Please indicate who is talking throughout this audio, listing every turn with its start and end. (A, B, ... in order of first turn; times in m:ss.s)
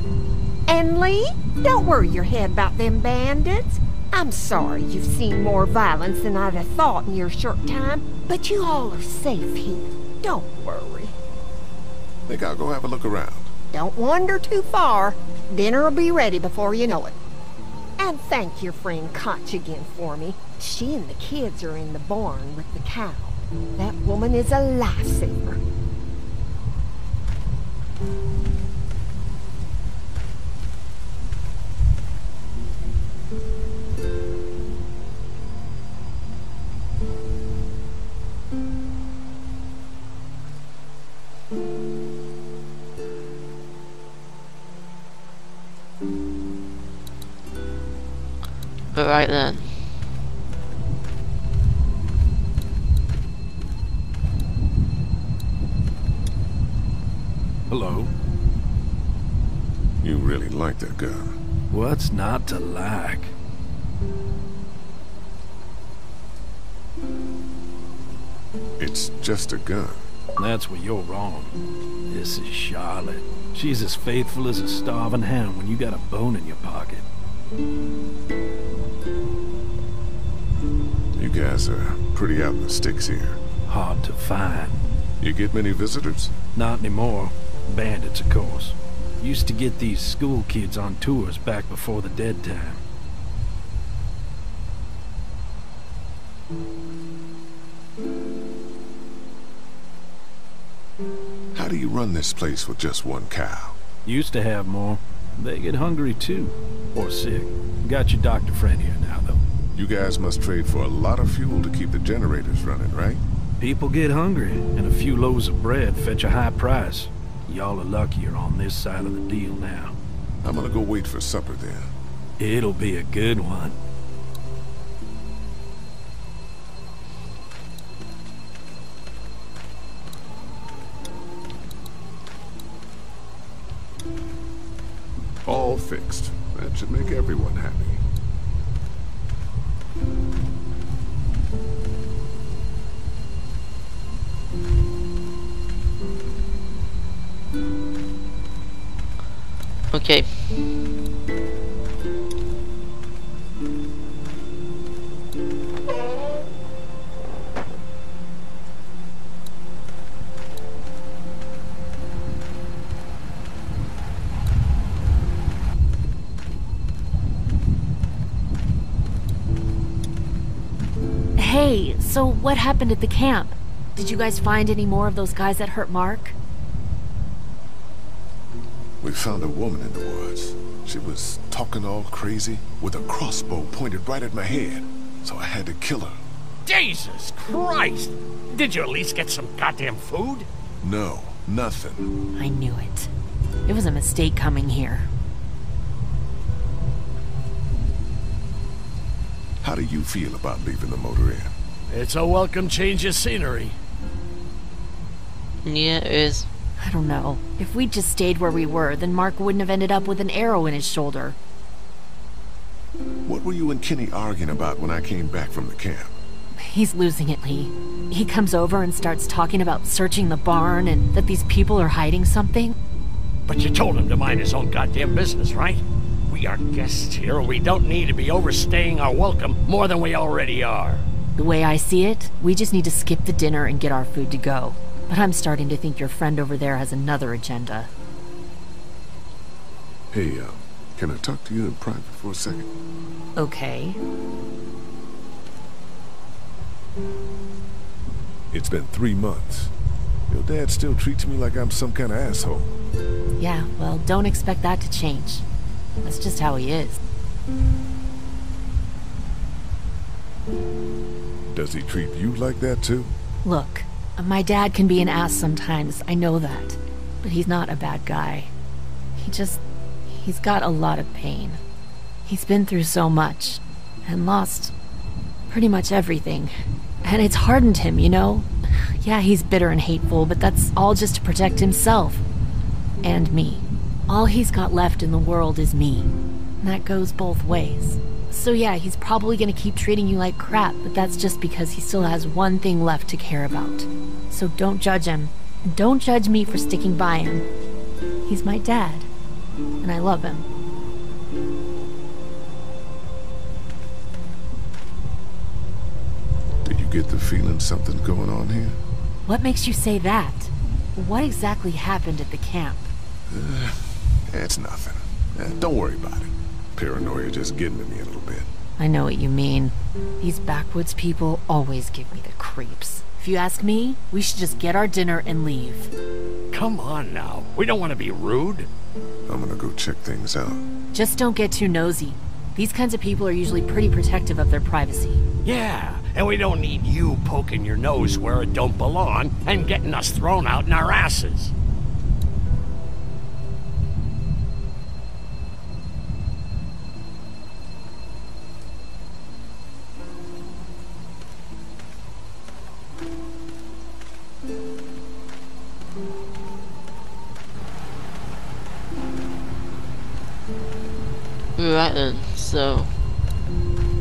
0:00.7-0:11.1 A
0:12.3-0:13.5 B
0:13.7-0:17.2 A
0:18.0-0:25.6 A
0:48.9-0:49.9 C
0:57.7-0:58.1 D
1:00.0-1:01.4 B
1:01.7-1:03.3 D
1:08.8-1:10.0 B
1:10.4-1:11.5 D
1:12.1-1:17.0 D
1:21.2-1:23.4 B
1:23.7-1:24.8 D
1:25.2-1:26.3 B
1:26.5-1:32.8 D
1:41.5-1:43.8 B
1:44.0-1:49.4 D
1:49.7-1:53.2 B
1:53.6-2:00.0 D
2:00.4-2:01.9 B
2:02.4-2:03.8 D
2:15.4-2:18.0 B
2:29.9-2:30.7 C
2:51.4-2:56.4 E
2:59.0-3:06.2 B
3:06.6-3:10.5 F
3:10.8-3:12.1 B
3:12.4-3:13.1 E
3:13.7-3:15.1 E
3:19.6-3:21.5 B
3:21.9-3:23.8 F
3:25.6-3:26.5 C
3:26.8-3:31.4 E
3:33.2-3:36.1 B
3:36.6-3:42.8 E
3:43.5-3:51.0 F
3:51.4-3:57.9 E
4:00.1-4:02.7 B
4:03.4-4:04.0 E
4:08.5-4:09.7 B
4:10.3-4:12.7 B
4:13.4-4:15.4 E
4:16.0-4:17.0 E
4:21.5-4:23.1 B
4:23.4-4:28.5 E
4:29.2-4:31.6 E
4:32.3-4:34.7 E
4:35.5-4:42.2 E
4:43.0-4:57.5 E
4:58.2-4:59.1 E
4:59.8-5:00.5 E
5:06.6-5:08.8 B
5:09.3-5:12.9 E
5:13.3-5:18.5 B
5:18.8-5:25.9 E
5:26.5-5:28.7 F
5:29.3-5:30.6 B
5:30.9-5:35.2 E
5:35.4-5:41.5 F
6:01.6-6:02.9 C